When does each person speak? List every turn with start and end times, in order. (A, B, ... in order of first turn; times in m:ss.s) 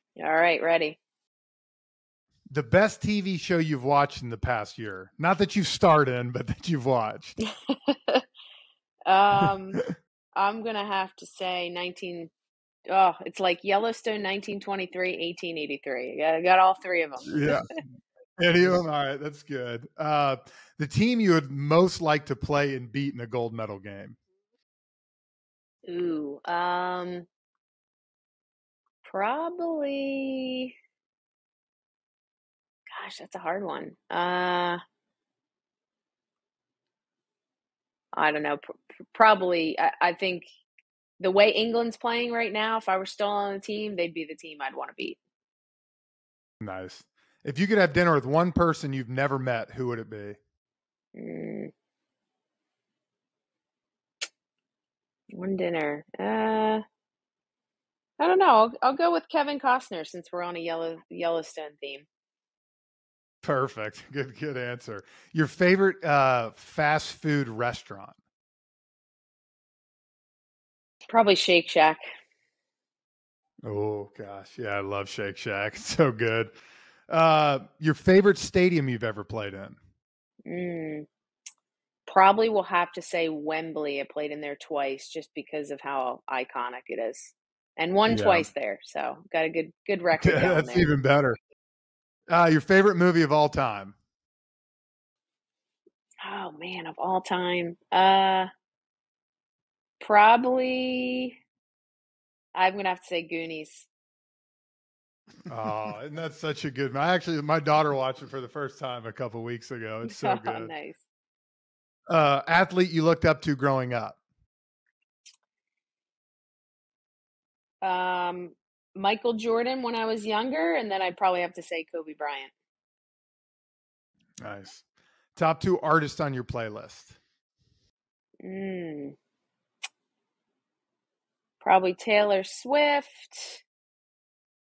0:00.2-0:01.0 A
0:02.5-0:07.4 B
0:07.5-0:08.2 A
0:09.1-0:09.8 A
0:10.4-0:12.3 A
0:12.9-0:17.8 A
0:17.3-0:17.7 B
0:18.4-0:24.2 B
0:25.9-0:27.3 A
0:29.0-0:30.7 A
0:32.9-0:34.8 A
0:38.1-0:40.5 A
0:41.2-0:45.2 A
0:46.6-0:50.4 B
0:51.2-0:51.7 A
0:55.3-0:56.8 A
0:58.2-1:02.1 A
1:03.4-1:08.2 B
1:11.1-1:12.0 A
1:13.6-1:16.5 B
1:17.1-1:19.8 B
1:20.5-1:21.1 A
1:22.1-1:30.9 A
1:28.1-1:28.5 B
1:30.2-1:31.4 B
1:32.3-1:34.0 B
1:36.2-1:38.5 A
1:40.0-1:41.3 A
1:42.6-1:43.9 A
1:45.5-1:50.7 B
1:50.0-1:51.0 A
1:52.1-1:54.2 B
1:57.8-2:02.5 A
2:04.4-2:04.8 B
2:05.4-2:07.2 B
2:08.4-2:09.2 A
2:11.6-2:13.6 A